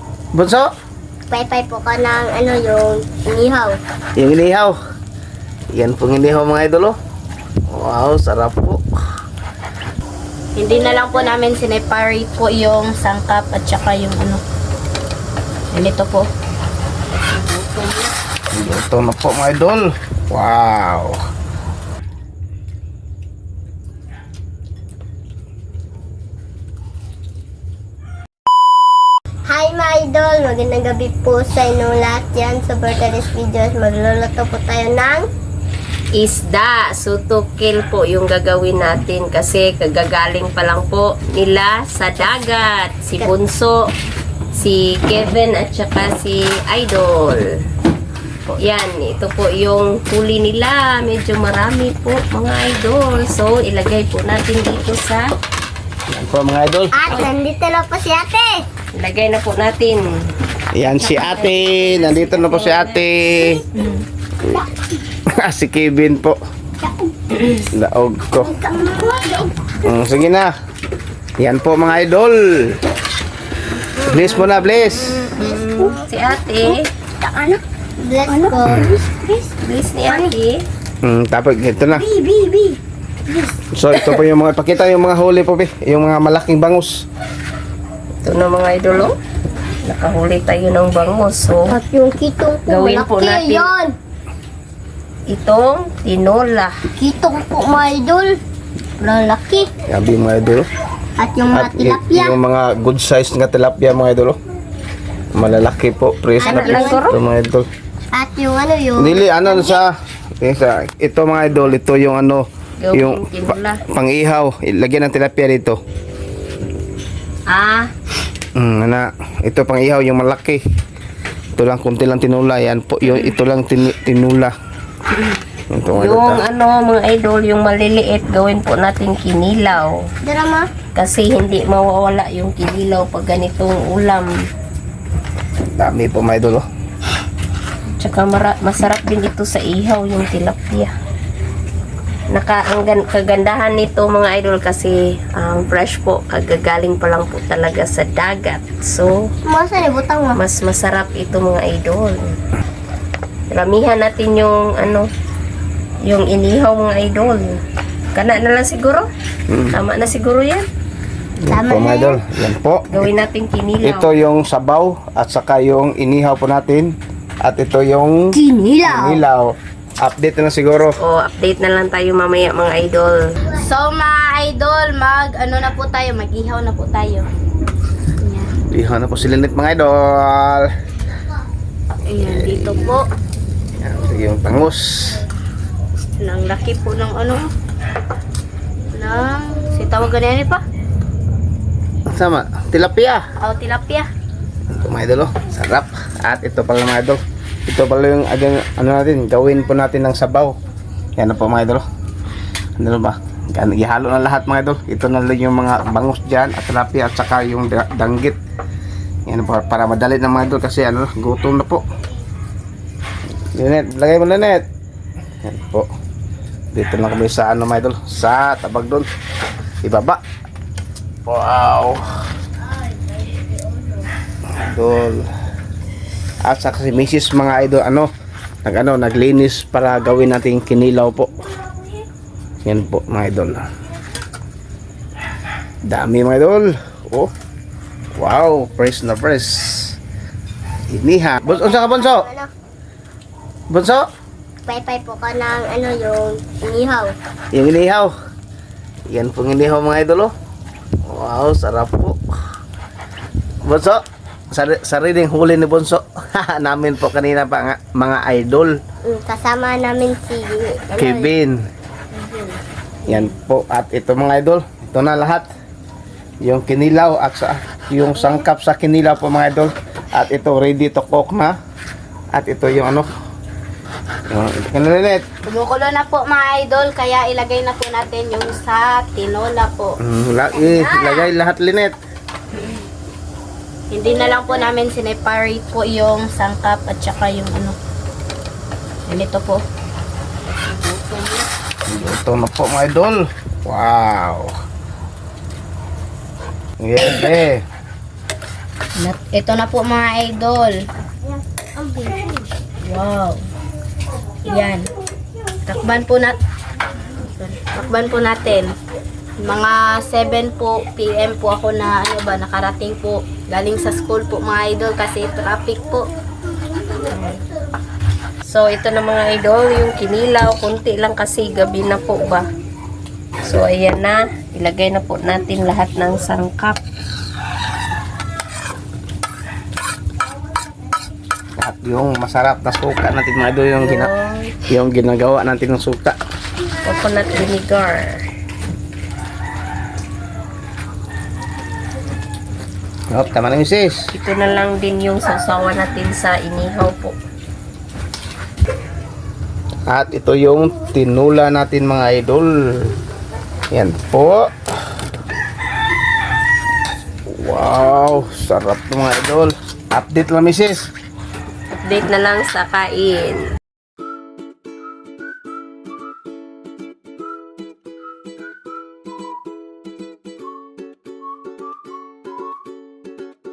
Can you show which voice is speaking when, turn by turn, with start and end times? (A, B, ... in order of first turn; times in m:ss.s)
0:00.3-0:00.7 A
0:01.3-0:03.8 B
0:04.2-0:04.8 A
0:05.7-0:06.9 A
0:07.7-0:08.8 A
0:10.5-0:14.4 C
0:10.7-0:11.2 B
0:15.7-0:16.3 C
0:18.5-0:21.2 A
0:29.5-0:35.2 B
0:36.1-0:43.8 D
0:44.5-0:47.4 D
0:48.6-0:55.3 D
0:56.1-0:57.0 A
0:56.9-0:58.6 B
0:59.0-1:03.1 D
1:00.7-1:03.6 A
1:03.7-1:04.0 C
1:05.3-1:06.4 A
1:07.7-1:08.5 A
1:08.4-1:09.5 B
1:09.8-1:10.5 A
1:11.4-1:12.8 A
1:14.0-1:15.3 A
1:15.3-1:16.0 B
1:15.9-1:16.9 D
1:16.6-1:19.5 B
1:19.6-1:20.6 D
1:21.0-1:22.0 A
1:21.9-1:23.6 B
1:23.7-1:27.0 A
1:28.2-1:29.2 D
1:29.8-1:31.7 D
1:31.7-1:34.0 B
1:32.7-1:33.7 D
1:35.3-1:36.7 D
1:37.0-1:38.4 B
1:39.0-1:39.7 B
1:39.9-1:40.7 A
1:41.2-1:42.4 B
1:41.5-1:44.4 A
1:45.3-1:47.7 A
1:46.4-1:47.0 B
1:46.4-1:47.2 D
1:48.1-1:49.8 B
1:49.0-1:55.8 A
1:52.8-1:53.8 D
1:57.5-1:57.9 C
1:58.6-2:00.6 A
2:01.6-2:04.5 A
2:05.7-2:06.4 A
2:06.0-2:10.0 D
2:10.2-2:10.7 B
2:10.9-2:14.3 D
2:15.8-2:16.6 A
2:18.0-2:20.9 D
2:22.3-2:29.3 D
2:29.4-2:30.4 B
2:30.3-2:32.4 D
2:33.5-2:35.1 D
2:36.0-2:37.6 D
2:38.1-2:39.1 D
2:39.5-2:39.8 A
2:39.7-2:40.7 D
2:41.4-2:43.1 A
2:41.5-2:42.2 B
2:42.9-2:44.1 D
2:43.8-2:51.0 A
2:48.3-2:49.2 B
2:51.0-2:53.2 D
2:53.5-2:57.2 C
2:58.2-2:58.5 C
2:58.7-3:00.7 A
3:02.1-3:03.1 C
3:02.2-3:02.8 A
3:03.8-3:05.2 A
3:06.2-3:07.5 C
3:08.9-3:10.6 C
3:12.1-3:13.2 A
3:13.4-3:14.0 C
3:14.7-3:20.6 A
3:21.2-3:21.8 A
3:22.8-3:28.4 A
3:29.2-3:31.8 A
3:33.5-3:34.6 A
3:35.4-3:35.9 A
3:36.7-3:39.1 A
3:39.8-3:40.2 A
3:41.2-3:42.0 A
3:42.4-3:44.1 B
3:44.6-3:45.2 A
3:46.4-3:48.1 A
3:48.6-3:51.4 A
3:52.6-3:53.6 A
3:55.8-3:57.3 A
3:58.2-4:00.0 A
4:00.9-4:02.3 A
4:01.4-4:02.5 B
4:03.7-4:04.1 A
4:04.6-4:07.1 B
4:07.5-4:08.1 A
4:09.1-4:10.3 A
4:11.0-4:12.2 A
4:13.6-4:18.8 A
4:19.0-4:21.3 B
4:21.0-4:21.6 A
4:22.1-4:22.6 C
4:23.0-4:25.5 A
4:26.4-4:31.6 A
4:32.3-4:33.1 A
4:34.3-4:35.3 A
4:35.4-4:40.0 C
4:40.0-4:41.9 A
4:40.7-4:41.2 B
4:43.9-4:47.8 C
4:44.0-4:44.7 B
4:49.1-4:49.6 C
4:50.8-4:51.4 D
4:51.9-4:54.5 A
4:56.8-4:57.6 A
4:59.0-5:00.8 C
5:01.8-5:02.5 B
5:02.8-5:03.4 C
5:04.4-5:04.9 C
5:05.6-5:06.4 C
5:07.2-5:08.7 C
5:09.4-5:16.1 C
5:17.0-5:17.4 C
5:18.4-5:22.5 D
5:23.4-5:26.8 D
5:31.6-5:34.1 A
5:33.8-5:34.6 D
5:34.7-5:36.2 A
5:36.8-5:38.2 D
5:43.1-5:44.1 A
5:44.1-5:47.2 D
5:49.9-5:53.0 A
5:53.7-5:54.5 A
5:57.3-6:00.9 A
6:01.7-6:03.4 D